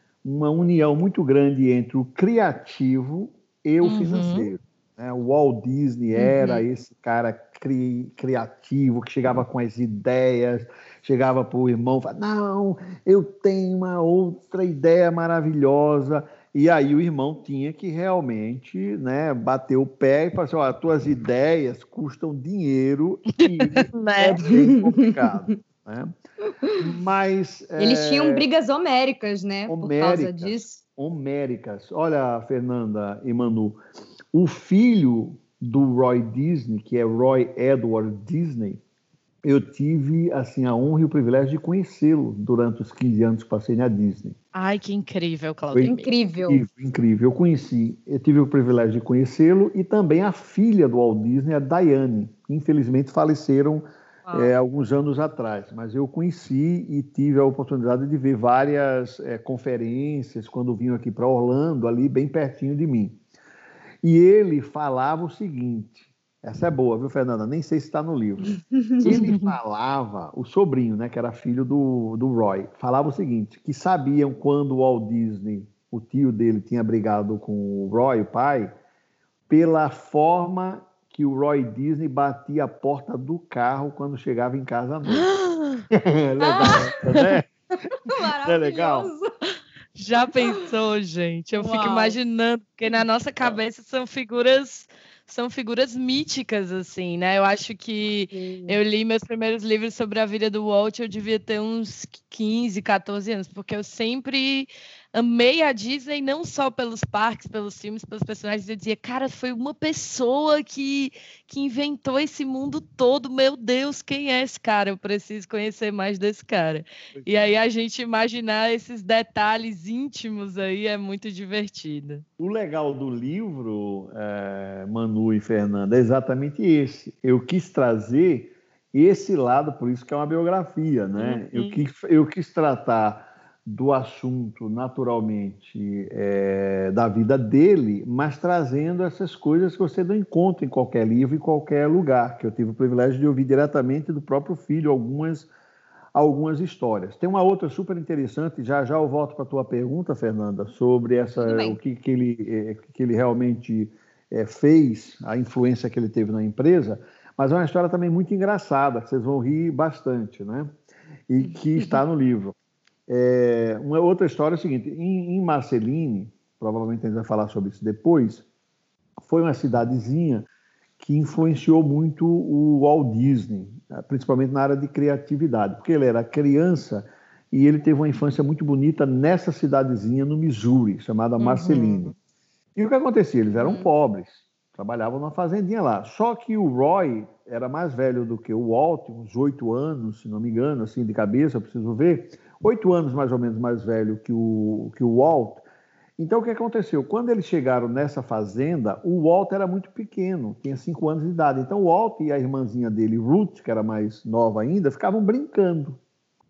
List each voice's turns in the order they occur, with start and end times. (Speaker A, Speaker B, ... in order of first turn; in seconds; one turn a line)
Speaker A: 0.2-26.1
Speaker B: 3.8-4.5
Speaker C: 6.2-6.5
Speaker B: 23.4-24.4
Speaker C: 24.5-25.6
Speaker A: 26.8-28.5
Speaker C: 27.8-30.8
Speaker A: 29.7-33.8
Speaker A: 34.3-38.8
Speaker A: 39.4-44.4
Speaker B: 44.5-46.1
Speaker A: 45.7-63.2
Speaker C: 45.8-46.6
Speaker A: 64.0-78.7
Speaker C: 68.7-69.1
Speaker B: 69.0-69.5
Speaker A: 79.5-85.3
Speaker B: 85.1-85.9
Speaker A: 85.9-87.5
Speaker C: 86.4-86.8
Speaker B: 87.1-87.4
Speaker C: 88.0-89.3
Speaker A: 88.4-89.1
Speaker B: 90.0-122.2
Speaker C: 91.5-92.2
Speaker C: 98.3-98.8
Speaker A: 117.2-117.5
Speaker A: 122.4-145.5
Speaker B: 131.2-131.8
Speaker A: 146.1-160.7
Speaker C: 151.4-151.8
Speaker A: 161.3-162.6
Speaker A: 163.1-168.4
Speaker A: 169.2-170.5
Speaker A: 171.0-182.1
Speaker B: 181.4-182.1
Speaker A: 182.8-195.7
Speaker C: 183.6-183.9
Speaker A: 196.2-206.0